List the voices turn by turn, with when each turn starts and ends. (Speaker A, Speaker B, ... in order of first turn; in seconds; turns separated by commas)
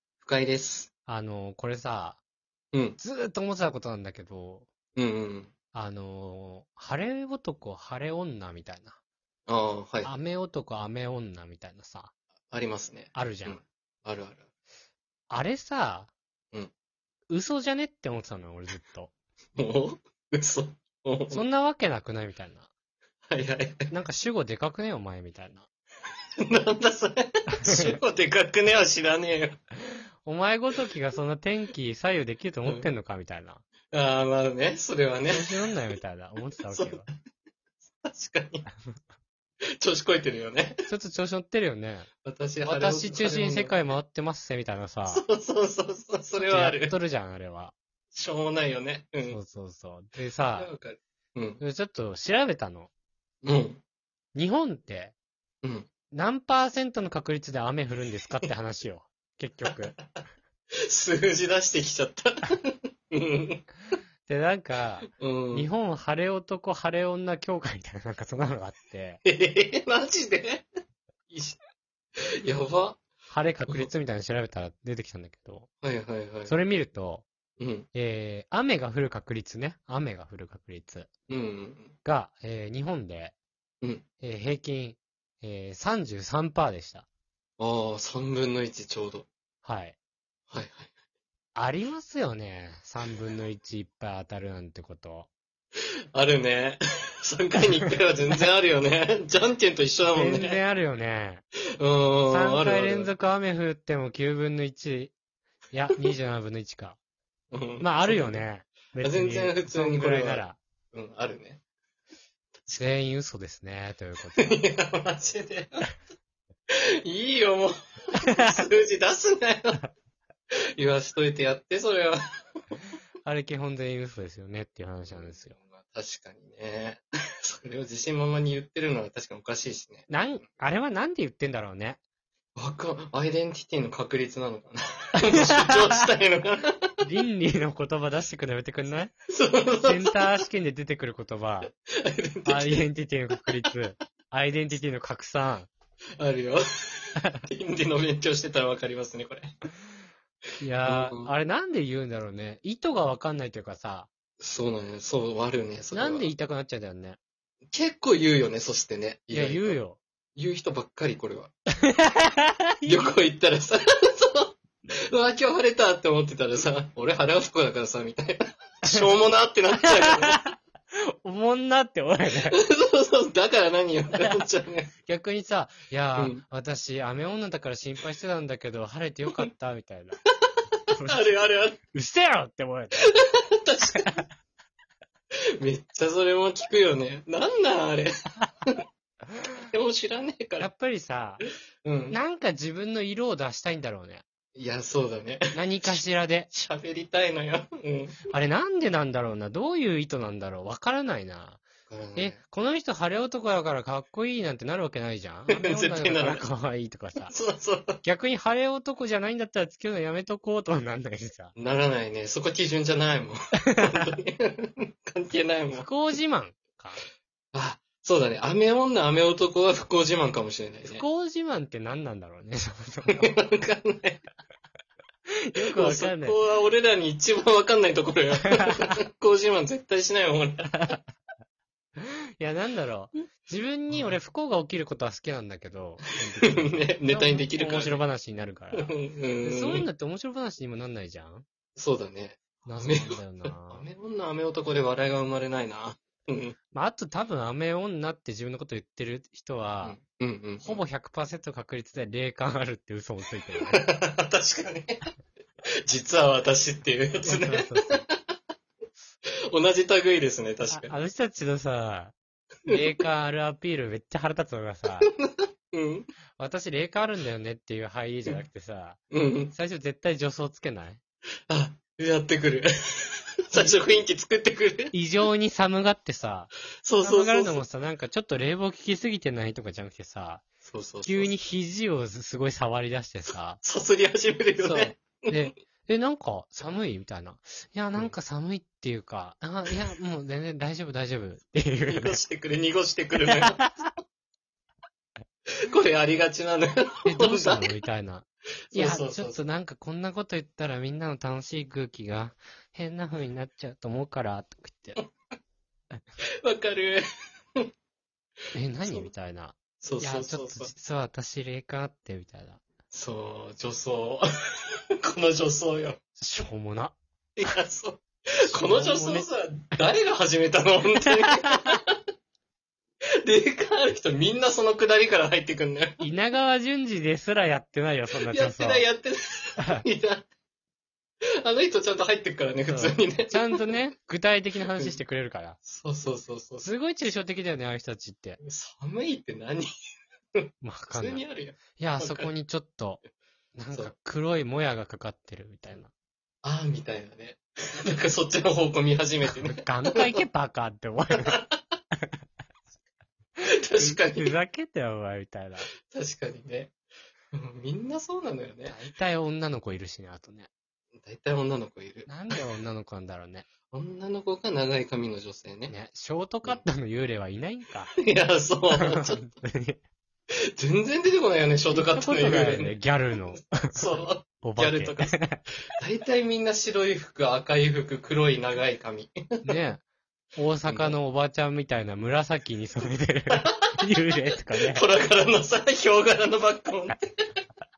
Speaker A: 0.2-0.9, Speaker B: 1.1-2.2, Speaker A: 2.7-3.0, Speaker B: 3.0-4.7, Speaker A: 5.0-5.5, Speaker B: 5.7-9.0, Speaker A: 9.5-10.1, Speaker B: 10.0-12.1, Speaker A: 12.5-14.5, Speaker B: 13.2-13.6, Speaker B: 15.3-16.1, Speaker B: 17.3-19.1, Speaker A: 19.6-21.4, Speaker B: 21.3-22.7, Speaker A: 23.3-23.9, Speaker B: 23.9-25.7, Speaker A: 26.4-29.6, Speaker B: 30.2-33.6, Speaker A: 33.9-35.7, Speaker B: 35.3-37.1, Speaker A: 36.7-37.1, Speaker A: 38.0-38.7, Speaker A: 39.8-40.8, Speaker B: 40.9-42.1, Speaker A: 42.2-43.8, Speaker B: 42.6-45.2, Speaker A: 45.1-46.9, Speaker B: 46.4-47.8, Speaker A: 48.1-49.4, Speaker B: 49.3-50.7, Speaker A: 50.5-51.6, Speaker B: 51.6-52.9, Speaker A: 53.4-53.8, Speaker B: 54.4-55.1, Speaker A: 55.6-55.9, Speaker B: 56.1-60.0, Speaker A: 59.7-60.0, Speaker A: 60.9-63.7, Speaker B: 64.3-69.2, Speaker A: 65.2-65.7, Speaker A: 69.2-70.7, Speaker A: 71.3-71.6, Speaker A: 72.4-73.0, Speaker B: 73.3-75.7, Speaker A: 75.8-76.5, Speaker B: 76.5-77.2, Speaker A: 77.6-77.9, Speaker B: 77.9-81.1, Speaker A: 81.3-82.0, Speaker B: 82.0-83.3, Speaker B: 84.2-87.1, Speaker A: 87.6-89.3, Speaker B: 89.6-90.0, Speaker A: 90.5-90.9, Speaker B: 91.5-95.3, Speaker A: 96.2-100.6, Speaker B: 100.1-101.4, Speaker A: 101.8-103.1, Speaker B: 102.3-105.1, Speaker B: 105.7-107.0, Speaker A: 107.5-108.5, Speaker B: 107.8-110.6, Speaker A: 109.0-111.6, Speaker B: 112.8-114.6, Speaker A: 114.3-115.9, Speaker A: 116.7-119.8, Speaker A: 120.8-122.2, Speaker B: 123.2-125.6, Speaker A: 125.1-130.1, Speaker B: 130.1-132.0, Speaker A: 132.6-136.7, Speaker B: 137.0-139.1, Speaker A: 139.3-140.3, Speaker B: 139.8-141.7, Speaker A: 141.7-142.8, Speaker B: 142.5-145.7, Speaker A: 146.2-149.5, Speaker B: 150.6-154.1, Speaker A: 150.9-151.3, Speaker A: 154.4-156.3, Speaker B: 155.9-157.2, Speaker A: 157.7-159.8, Speaker B: 159.3-160.0, Speaker A: 160.4-161.5, Speaker B: 161.8-163.1, Speaker A: 162.8-164.5, Speaker A: 165.1-170.4, Speaker B: 169.8-170.6, Speaker B: 171.2-172.6, Speaker A: 172.5-174.9, Speaker B: 175.1-180.2, Speaker A: 176.2-176.4, Speaker B: 180.9-181.4, Speaker A: 181.0-181.8, Speaker B: 181.9-183.1, Speaker A: 183.2-184.2, Speaker B: 183.9-184.2, Speaker A: 185.6-188.2, Speaker A: 189.7-190.7, Speaker B: 190.6-191.5, Speaker A: 191.8-192.2, Speaker B: 192.1-194.2, Speaker A: 194.6-195.6, Speaker B: 195.5-196.5, Speaker A: 196.5-198.2, Speaker B: 198.3-201.6, Speaker A: 201.9-202.4, Speaker B: 202.2-207.3, Speaker A: 205.5-206.4, Speaker A: 207.3-208.0, Speaker B: 208.0-211.5, Speaker A: 211.6-216.0, Speaker B: 215.8-217.1, Speaker A: 217.5-221.1, Speaker B: 220.9-223.3, Speaker A: 223.1-224.2, Speaker B: 225.5-226.4, Speaker A: 225.6-231.0, Speaker B: 230.7-231.0, Speaker B: 232.0-241.4, Speaker A: 236.5-238.0, Speaker A: 238.7-239.9, Speaker A: 241.8-246.6, Speaker B: 242.6-243.9, Speaker B: 246.7-250.0, Speaker A: 249.8-250.8, Speaker B: 250.6-253.9, Speaker A: 253.7-255.0, Speaker A: 255.9-258.2, Speaker B: 257.2-258.0, Speaker A: 259.5-260.9, Speaker B: 260.7-262.1, Speaker B: 262.7-265.1, Speaker A: 265.0-266.1, Speaker B: 266.4-269.0, Speaker A: 269.1-269.5, Speaker B: 269.5-271.0, Speaker A: 271.5-274.9, Speaker B: 274.9-280.4, Speaker A: 276.8-277.6, Speaker A: 280.6-281.3, Speaker B: 281.0-283.6, Speaker A: 283.6-285.5, Speaker B: 284.6-292.2, Speaker A: 291.9-293.6, Speaker B: 293.3-293.9, Speaker A: 295.7-297.8, Speaker B: 297.1-305.0, Speaker A: 298.7-299.4, Speaker A: 306.4-307.0, Speaker B: 308.5-312.6, Speaker A: 309.8-310.7, Speaker A: 312.9-314.2, Speaker A: 315.0-316.0, Speaker B: 316.2-317.0, Speaker A: 317.4-321.8, Speaker B: 318.5-319.3, Speaker B: 321.0-321.8, Speaker A: 323.2-326.0, Speaker B: 326.0-328.9, Speaker A: 328.2-330.3, Speaker A: 331.4-333.8, Speaker B: 332.6-335.6, Speaker A: 335.7-336.7, Speaker B: 336.6-338.4, Speaker A: 338.4-339.7, Speaker B: 340.6-341.2, Speaker A: 340.9-342.3, Speaker B: 341.8-343.0, Speaker B: 343.6-345.9, Speaker A: 346.4-350.2, Speaker B: 349.3-351.4, Speaker A: 351.2-351.6, Speaker A: 353.4-354.4, Speaker B: 353.8-355.7, Speaker A: 355.9-356.7, Speaker A: 357.3-358.8, Speaker B: 358.6-360.5, Speaker A: 361.0-362.4, Speaker B: 362.1-363.5, Speaker A: 363.7-365.7, Speaker B: 365.7-367.9, Speaker A: 367.9-369.3, Speaker B: 368.7-369.8, Speaker A: 370.6-372.8, Speaker B: 371.7-373.8, Speaker A: 373.7-375.2, Speaker B: 374.4-375.4, Speaker A: 375.8-379.1, Speaker B: 379.4-379.8, Speaker B: 380.4-384.9, Speaker A: 380.6-381.0, Speaker A: 384.6-387.1